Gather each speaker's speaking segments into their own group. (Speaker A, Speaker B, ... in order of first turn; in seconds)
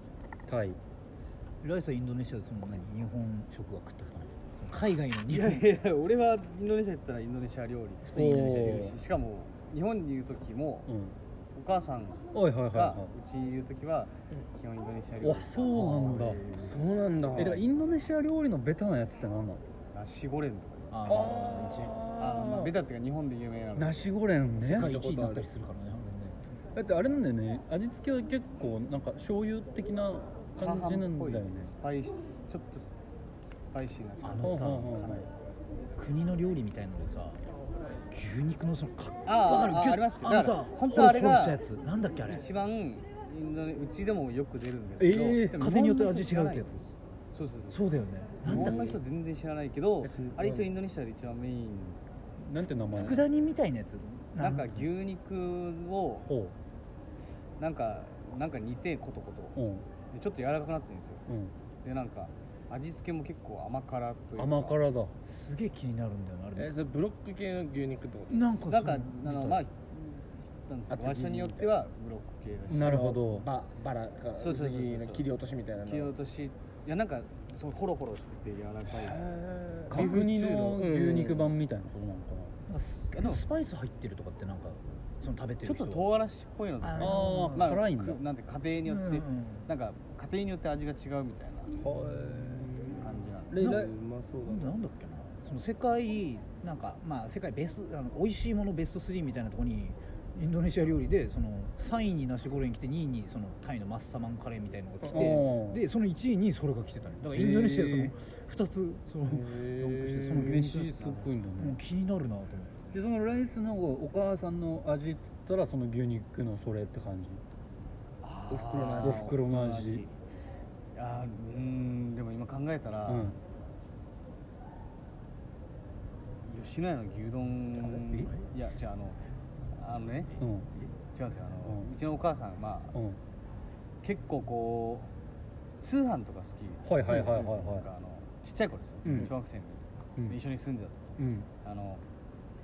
Speaker A: 0.5-0.8, 8.1-8.9, 10.9-11.2, 12.3-13.1, 15.2-16.4, 17.4-19.6, 23.7-25.0, 26.7-31.7, 34.4-35.3, 45.0-45.6, 52.4-53.2, 56.2-56.5, 59.5-59.8, 61.3-61.5, 64.4-65.1, 72.7-73.5, 79.9-82.5, 87.0-88.2, 91.7-92.7, 93.5-93.9, 105.1-105.8, 107.3-108.1, 110.2-111.8, 112.9-117.4, 119.0-120.0, 123.0-123.4, 130.4-130.7, 132.9-133.2, 136.8-137.9, 139.0-139.3, 141.2-141.5
Speaker B: 1.6-5.7, 8.0-8.9, 15.7-16.8, 20.9-22.0, 24.6-26.4, 34.2-35.1, 36.0-37.4, 38.1-42.5, 45.5-46.8, 47.7-48.9, 52.8-54.9, 65.2-66.7, 68.3-69.6, 82.7-86.1, 86.8-87.8, 88.8-89.7, 93.5-113.0
Speaker C: 5.3-10.9, 11.5-16.1, 19.9-21.6, 22.2-24.1, 30.6-35.3, 39.2-41.6, 42.2-47.8, 48.4-52.0, 52.9-53.2, 54.4-56.3, 57.6-61.2, 61.8-64.8, 68.5-73.1, 74.3-75.3, 75.8-79.2, 80.0-80.2, 83.1-83.4, 85.6-91.8, 93.0-93.6, 118.2-120.1, 120.9-123.4, 126.4-129.2, 129.7-130.4, 131.1-132.9, 134.0-135.1, 135.8-142.0
Speaker D: 16.6-17.6, 21.1-22.7, 24.6-25.5, 48.5-49.0, 50.0-50.7, 66.5-68.6, 70.9-71.7, 72.8-76.1, 78.9-81.5, 92.2-94.8, 105.0-105.4, 109.2-110.5, 118.5-119.3